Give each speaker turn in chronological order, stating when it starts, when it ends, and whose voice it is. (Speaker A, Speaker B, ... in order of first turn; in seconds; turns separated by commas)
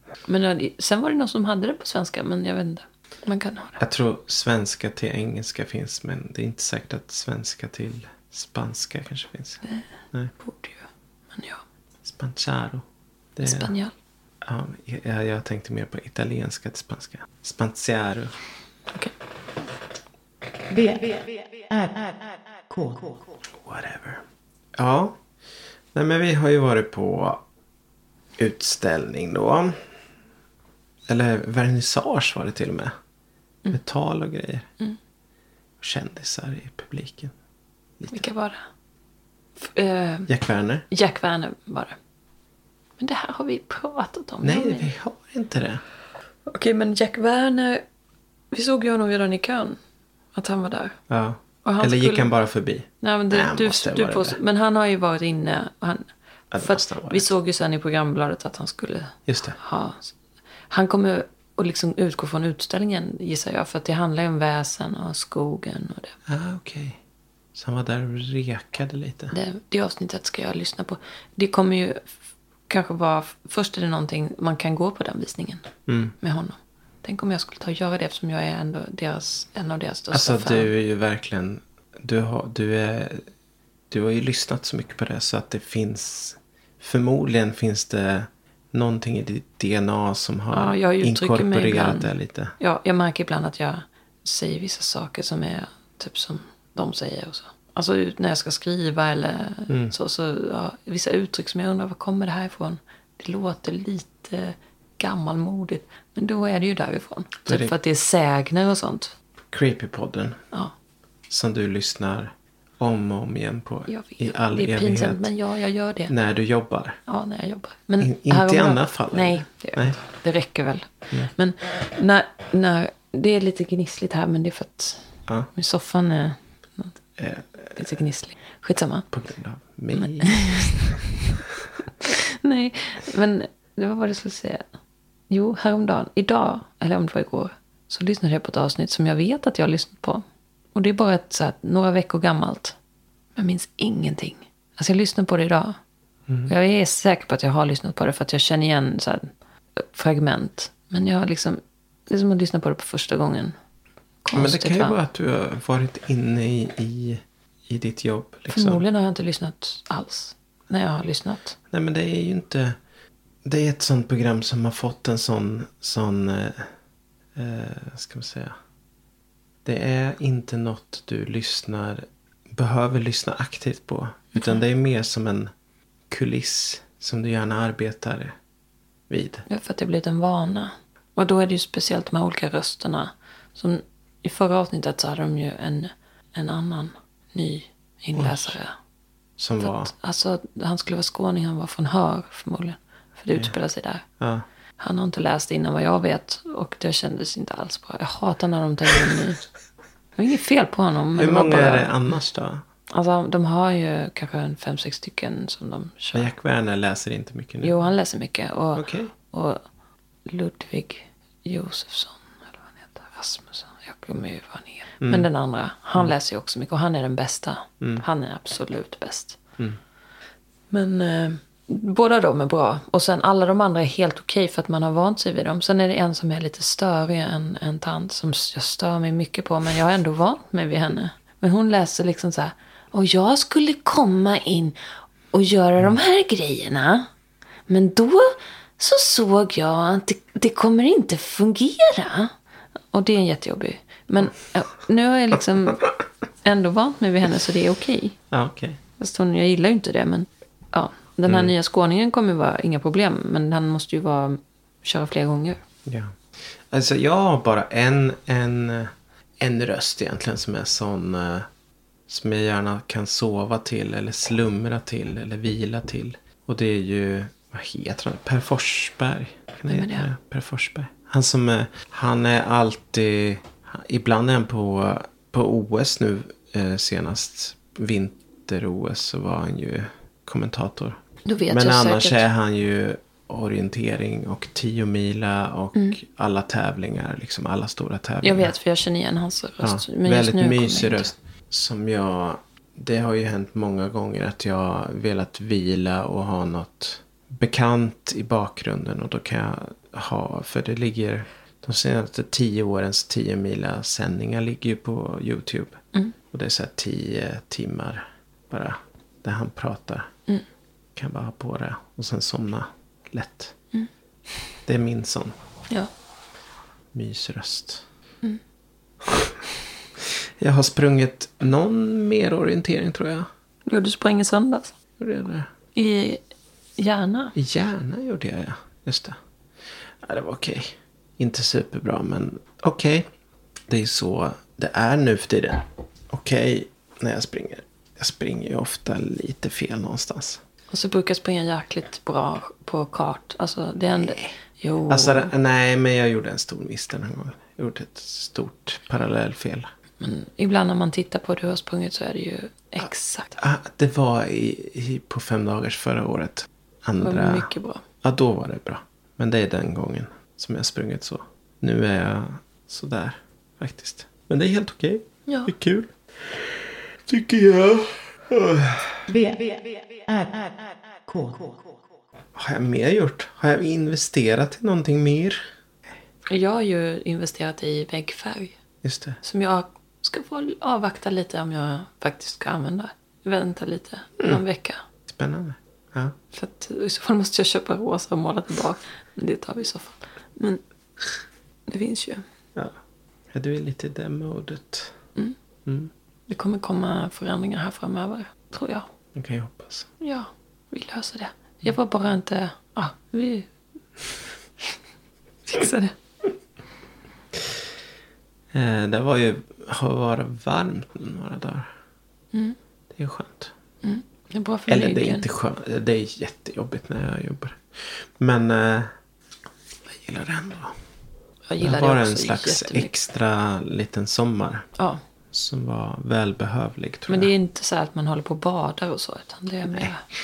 Speaker A: 0.2-3.8, Speaker B: 3.8-9.6, Speaker A: 10.4-11.6, Speaker B: 12.0-13.7, Speaker A: 13.4-13.9, Speaker B: 14.4-18.4, Speaker C: 20.7-23.4, Speaker B: 23.6-24.2, Speaker B: 24.8-25.2, Speaker B: 25.9-27.4, Speaker B: 28.4-29.8, Speaker B: 31.1-32.9, Speaker B: 33.7-34.7, Speaker B: 35.8-37.3, Speaker B: 38.0-38.2, Speaker A: 38.1-38.6, Speaker A: 39.6-40.3, Speaker B: 40.3-40.9, Speaker A: 40.9-42.0, Speaker A: 43.0-44.9, Speaker B: 44.4-45.8, Speaker A: 46.5-47.8, Speaker A: 48.5-49.8, Speaker A: 50.3-51.0, Speaker B: 51.1-54.4, Speaker A: 51.6-52.3, Speaker A: 53.0-56.1, Speaker B: 56.5-57.3, Speaker A: 56.6-60.1, Speaker B: 59.3-59.6, Speaker A: 60.7-66.1, Speaker B: 66.3-67.0, Speaker B: 67.5-69.3, Speaker A: 69.3-72.1, Speaker A: 72.7-75.7, Speaker B: 75.9-76.1, Speaker A: 76.2-80.7, Speaker B: 80.1-83.2, Speaker B: 83.9-92.5, Speaker A: 90.5-109.1, Speaker B: 99.7-99.9, Speaker B: 107.5-107.7, Speaker B: 109.5-110.4, Speaker B: 111.3-115.3, Speaker A: 113.9-116.1, Speaker B: 116.1-117.0, Speaker A: 117.0-127.0, Speaker B: 118.0-120.0, Speaker B: 127.2-127.9, Speaker A: 127.7-129.1, Speaker B: 129.1-131.0, Speaker A: 129.9-131.2, Speaker A: 132.0-134.7, Speaker A: 135.3-140.2, Speaker A: 140.7-142.8, Speaker A: 143.3-145.8, Speaker A: 146.5-153.5, Speaker A: 154.2-155.0, Speaker B: 154.3-158.8, Speaker A: 158.5-161.6, Speaker B: 161.7-162.8, Speaker B: 163.4-166.7, Speaker B: 167.3-168.5, Speaker B: 169.6-175.5, Speaker B: 176.1-178.3, Speaker B: 179.1-179.4, Speaker A: 179.5-188.7, Speaker B: 188.1-188.5, Speaker B: 189.4-189.9, Speaker A: 189.6-194.0, Speaker B: 194.2-194.4, Speaker A: 194.8-199.4, Speaker A: 200.2-201.9, Speaker B: 201.1-202.6, Speaker A: 202.9-206.3, Speaker B: 206.1-207.8, Speaker A: 207.6-209.6, Speaker B: 208.7-209.1, Speaker A: 210.2-219.4, Speaker B: 215.0-215.3, Speaker A: 220.7-234.8, Speaker A: 235.3-237.1, Speaker A: 237.7-242.3, Speaker A: 242.9-245.9, Speaker A: 246.4-248.2, Speaker B: 248.3-248.8, Speaker A: 249.0-255.6, Speaker B: 251.2-251.5, Speaker B: 255.8-256.2, Speaker B: 256.7-261.4, Speaker B: 262.1-288.5, Speaker A: 269.7-270.1, Speaker A: 281.2-282.3, Speaker A: 288.2-291.1, Speaker B: 289.6-305.8, Speaker B: 306.3-310.1, Speaker B: 310.9-313.5, Speaker B: 314.7-315.4, Speaker B: 316.9-317.8, Speaker B: 319.0-319.4, Speaker B: 320.0-323.3, Speaker A: 323.7-324.7, Speaker B: 325.0-325.5, Speaker A: 325.7-326.2, Speaker A: 326.8-327.4, Speaker B: 327.4-329.2, Speaker B: 330.0-333.1, Speaker B: 333.7-340.4, Speaker A: 340.7-345.3, Speaker B: 343.9-344.3, Speaker B: 344.9-349.7, Speaker A: 350.0-353.4, Speaker B: 353.4-357.5, Speaker A: 357.0-357.8, Speaker B: 358.0-369.0, Speaker A: 365.3-365.5, Speaker C: 369.1-371.8, Speaker B: 372.3-375.4, Speaker A: 376.3-378.6, Speaker B: 378.8-379.2, Speaker A: 379.2-384.8, Speaker B: 385.1-386.1, Speaker A: 386.3-390.6, Speaker A: 391.7-392.2, Speaker B: 393.3-394.9, Speaker B: 395.6-395.9, Speaker A: 396.3-398.9, Speaker B: 399.1-399.9, Speaker A: 400.0-403.5, Speaker A: 405.5-405.9, Speaker B: 408.5-411.7, Speaker B: 412.9-413.5, Speaker A: 413.8-415.2, Speaker B: 414.7-418.9, Speaker B: 419.9-420.8, Speaker A: 421.5-422.9, Speaker B: 421.6-424.7, Speaker B: 425.3-427.3, Speaker A: 427.1-430.0